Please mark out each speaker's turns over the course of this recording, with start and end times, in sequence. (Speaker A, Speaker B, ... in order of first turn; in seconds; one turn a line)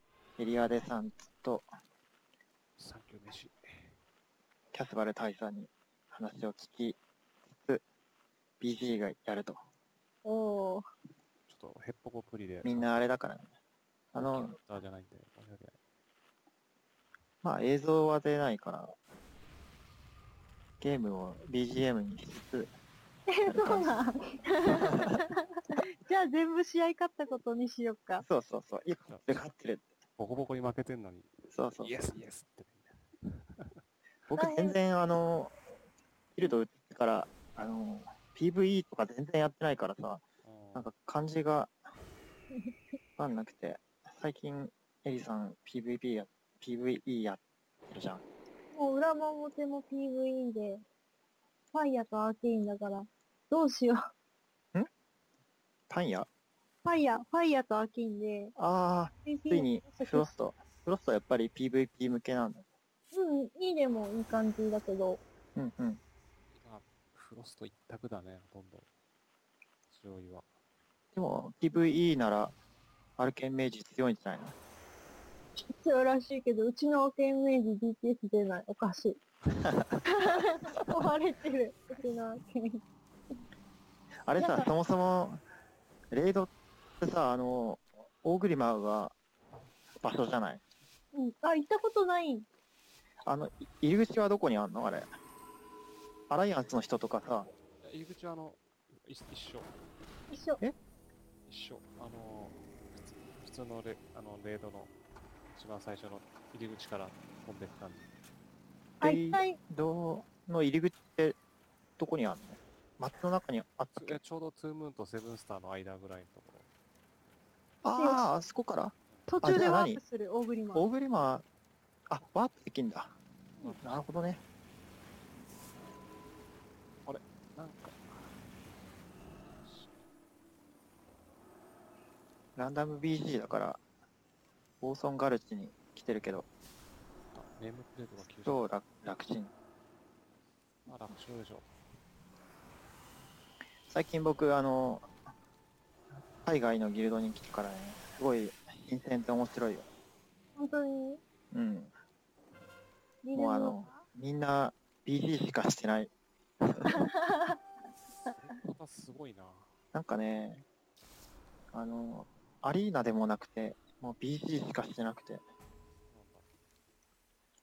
Speaker A: 0.4-1.7
Speaker B: 2.8-4.0
Speaker A: 4.7-7.0
Speaker A: 7.5-7.8
Speaker A: 8.6-9.6
Speaker C: 10.2-10.8
Speaker B: 11.5-12.9
Speaker A: 12.6-13.5
Speaker A: 14.1-14.6
Speaker B: 14.2-15.8
Speaker A: 17.4-18.9
Speaker A: 20.8-22.7
Speaker C: 23.3-25.3
Speaker A: 23.4-23.9
Speaker A: 24.9-25.2
Speaker C: 26.0-28.2
Speaker A: 28.2-29.8
Speaker B: 29.1-29.4
Speaker B: 30.2-33.8
Speaker A: 31.5-32.1
Speaker A: 34.3-35.6
Speaker C: 34.4-34.8
Speaker A: 36.3-40.2
Speaker B: 40.4-40.9
Speaker A: 40.7-41.7
Speaker A: 43.2-48.2
Speaker C: 48.7-50.8
Speaker C: 51.7-54.1
Speaker A: 55.9-56.3
Speaker C: 56.8-58.5
Speaker A: 58.6-62.6
Speaker C: 59.2-60.3
Speaker C: 63.1-65.2
Speaker A: 65.5-66.0
Speaker B: 66.5-68.9
Speaker B: 69.9-70.5
Speaker A: 71.1-72.5
Speaker A: 73.2-74.5
Speaker C: 75.6-79.2
Speaker A: 79.8-80.0
Speaker C: 80.1-82.8
Speaker A: 84.2-85.4
Speaker C: 84.4-84.7
Speaker A: 86.1-89.1
Speaker A: 90.0-90.6
Speaker C: 91.1-92.5
Speaker A: 93.2-95.1
Speaker A: 96.3-97.5
Speaker B: 97.8-99.7
Speaker C: 100.3-100.6
Speaker B: 101.5-104.9
Speaker B: 105.5-108.1
Speaker C: 109.0-109.6
Speaker A: 109.0-111.4
Speaker A: 112.0-114.2
Speaker B: 113.9-116.7
Speaker A: 117.8-120.0
Speaker C: 118.0-118.2
Speaker C: 119.3-120.9
Speaker A: 120.7-121.4
Speaker A: 122.1-123.2
Speaker B: 123.6-124.3
Speaker A: 123.8-124.4
Speaker B: 127.0-128.4
Speaker B: 129.2-130.1
Speaker A: 132.6-133.8
Speaker A: 134.8-136.5
Speaker B: 137.3-138.7
Speaker A: 138.4-139.5
Speaker B: 140.8-141.7
Speaker A: 143.9-145.1
Speaker A: 146.4-149.9
Speaker C: 150.6-151.2
Speaker A: 151.5-151.9
Speaker C: 153.2-154.0
Speaker A: 153.3-156.1
Speaker A: 156.6-157.1
Speaker C: 157.0-157.5
Speaker B: 158.3-159.8
Speaker A: 159.9-160.6
Speaker A: 161.7-165.4
Speaker B: 166.1-166.5